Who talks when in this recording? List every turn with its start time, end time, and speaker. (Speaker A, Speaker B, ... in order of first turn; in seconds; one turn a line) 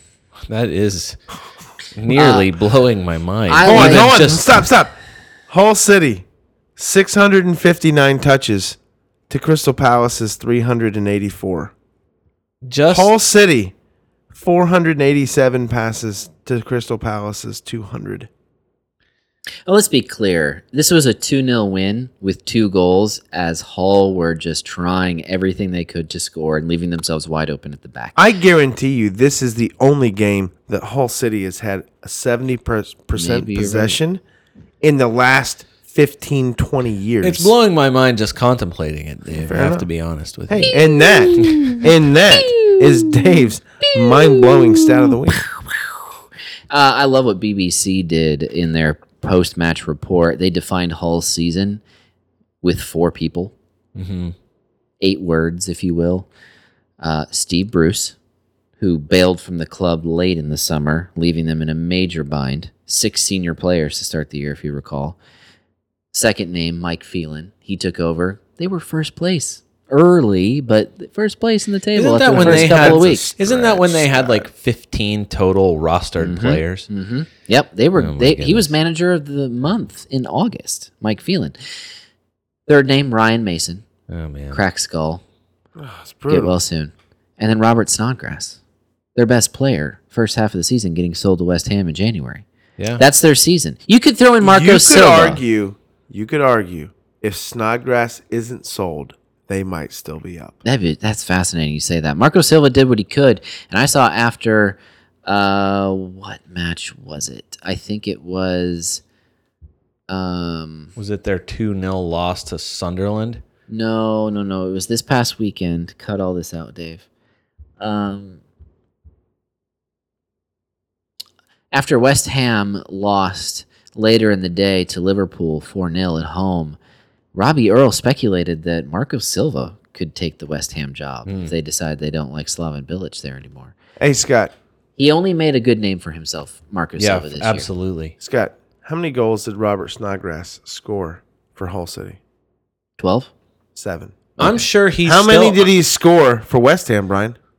Speaker A: 0.5-1.2
Speaker A: 1.9-4.6
Speaker B: 2.1-2.5
Speaker B: 3.5-4.1
Speaker C: 3.6-5.0
Speaker C: 5.5-6.2
Speaker C: 6.8-8.8
Speaker C: 9.3-11.7
Speaker A: 12.6-13.1
Speaker C: 12.9-13.7
Speaker C: 14.3-18.3
Speaker B: 19.7-28.2
Speaker C: 28.2-34.2
Speaker B: 33.1-34.0
Speaker C: 34.8-37.5
Speaker A: 37.2-40.8
Speaker C: 39.3-39.9
Speaker C: 40.5-45.5
Speaker B: 40.7-46.0
Speaker A: 41.4-41.8
Speaker B: 46.7-51.8
Speaker B: 52.6-53.5
Speaker A: 54.0-54.3
Speaker B: 55.0-56.3
Speaker B: 57.0-58.2
Speaker B: 58.8-65.2
Speaker B: 66.1-73.3
Speaker A: 72.0-76.9
Speaker C: 72.3-74.5
Speaker B: 76.2-81.6
Speaker A: 78.0-78.7
Speaker B: 82.7-83.8
Speaker A: 84.1-84.6
Speaker B: 84.5-85.2
Speaker C: 85.8-86.5
Speaker B: 86.3-88.6
Speaker B: 89.2-92.4
Speaker A: 92.8-93.0
Speaker B: 93.0-95.4
Speaker C: 94.4-100.6
Speaker B: 100.6-109.0
Speaker B: 110.1-110.9
Speaker A: 111.0-113.4
Speaker B: 113.7-117.0
Speaker B: 117.8-118.4
Speaker B: 121.7-126.8
Speaker B: 127.3-133.7
Speaker A: 131.3-131.5
Speaker C: 134.0-134.5
Speaker B: 135.0-137.7
Speaker A: 137.0-138.2
Speaker C: 138.2-142.2
Speaker B: 143.0-143.3
Speaker C: 143.8-144.2
Speaker B: 144.4-144.6
Speaker A: 144.4-145.7
Speaker C: 145.0-147.4